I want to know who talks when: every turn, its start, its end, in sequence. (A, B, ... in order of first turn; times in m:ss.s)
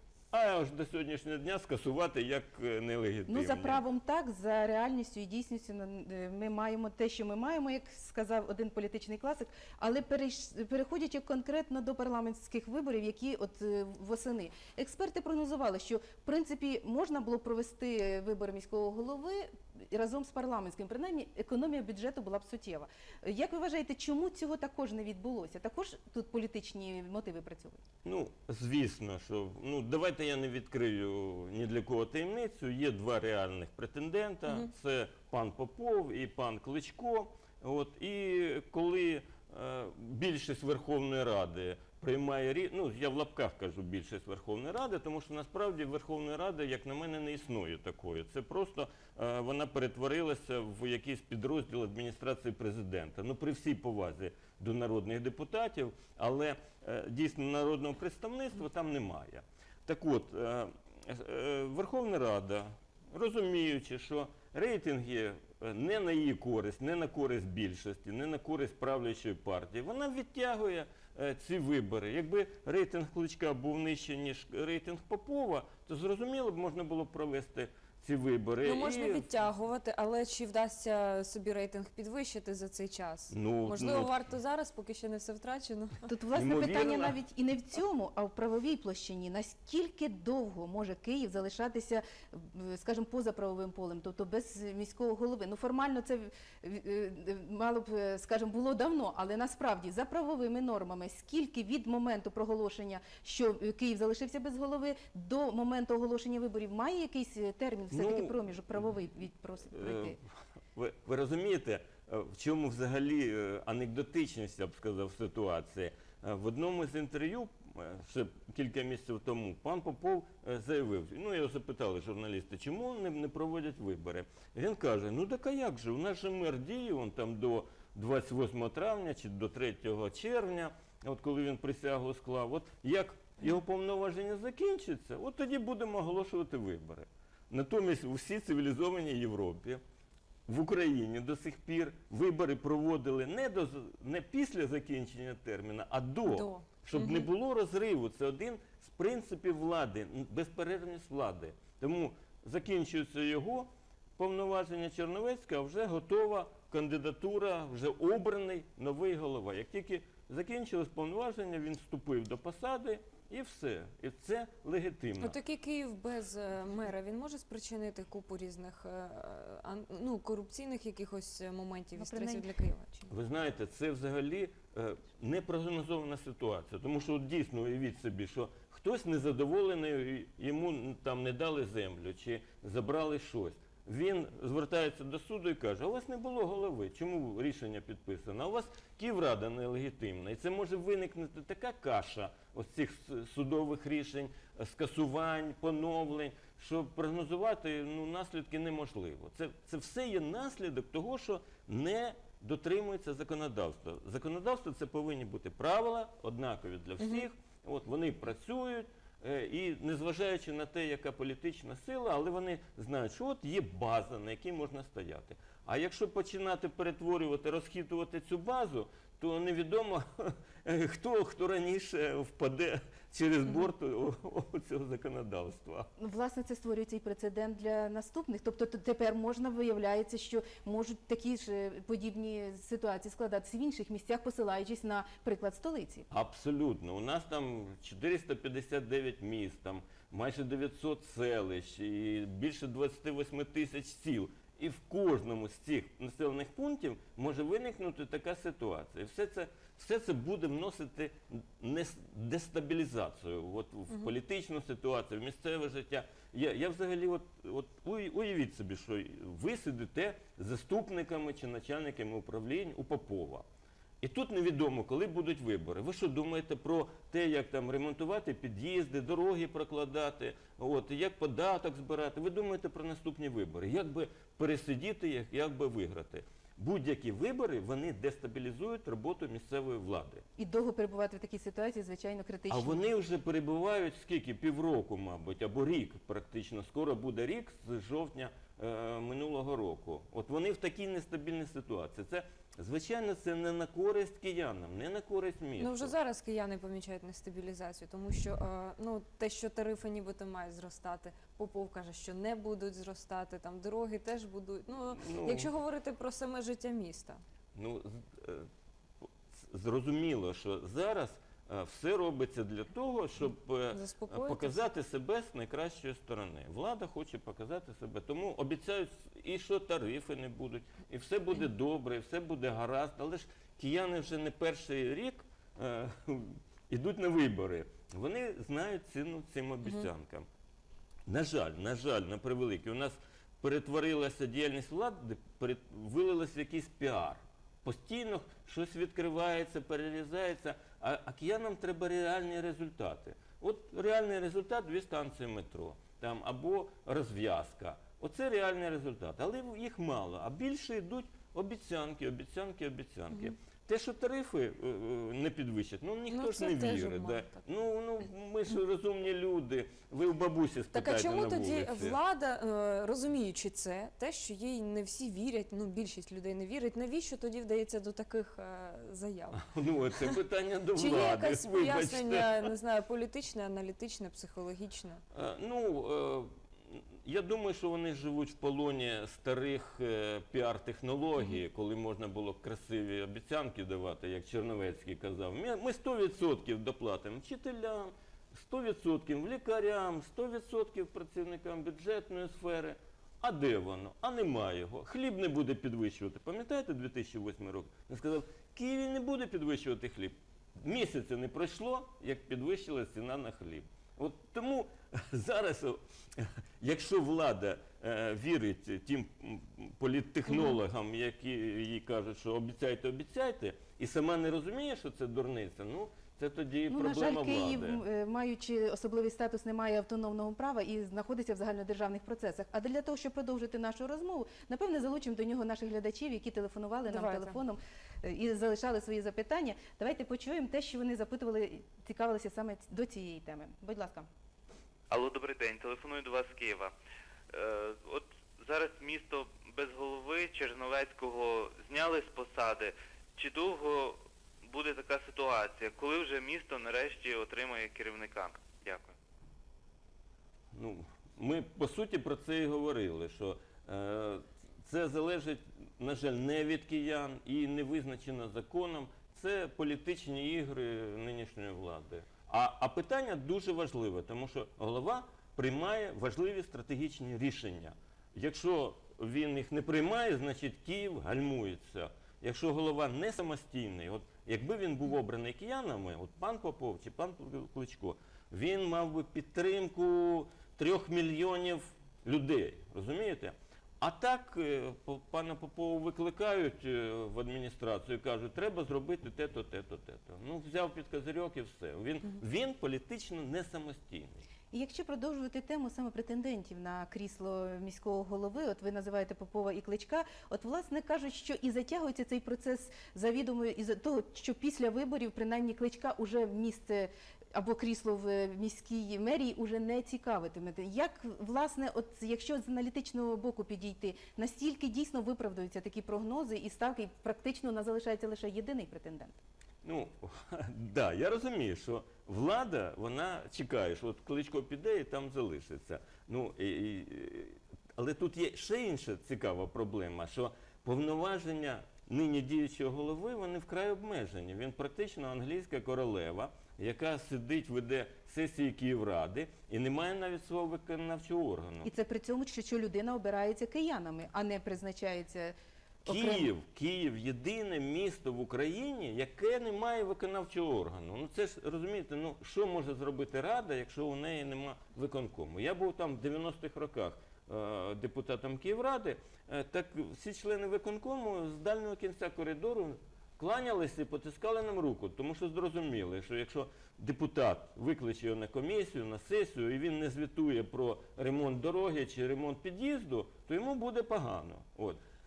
0:00.3-0:03.8 A
0:03.3-0:27.8 B
0:28.0-1:19.3 A
1:18.6-1:26.1 C
1:23.3-1:24.1 A
1:26.1-1:50.2 B
1:26.3-1:27.2 A
1:47.9-1:48.4 A
1:49.7-1:50.2 A
1:50.7-2:19.8 A
2:20.5-2:45.3 A
2:26.2-2:27.3 C
2:45.2-2:53.1 C
2:52.0-2:52.5 B
2:53.1-3:45.9 A
3:46.0-3:56.1 B
3:56.1-4:23.4 A
4:24.0-4:40.2 A
4:40.4-4:42.8 B
4:42.5-4:55.9 A
4:55.6-5:07.2 C
5:04.9-5:05.5 A
5:07.5-5:08.5 A
5:09.3-5:30.3 A
5:13.7-5:14.6 C
5:31.0-6:02.0 A
5:56.1-5:57.4 C
6:00.7-6:09.4 C
6:09.3-6:12.5 A
6:10.7-6:15.0 C
6:15.1-6:57.8 A
6:56.7-7:14.1 B
7:06.9-7:07.4 C
7:14.9-7:16.7 D
7:17.3-7:28.9 D
7:30.5-8:14.2 A
8:14.5-8:39.2 B
8:39.6-9:01.7 A
9:01.6-9:06.3 B
9:05.8-9:34.8 A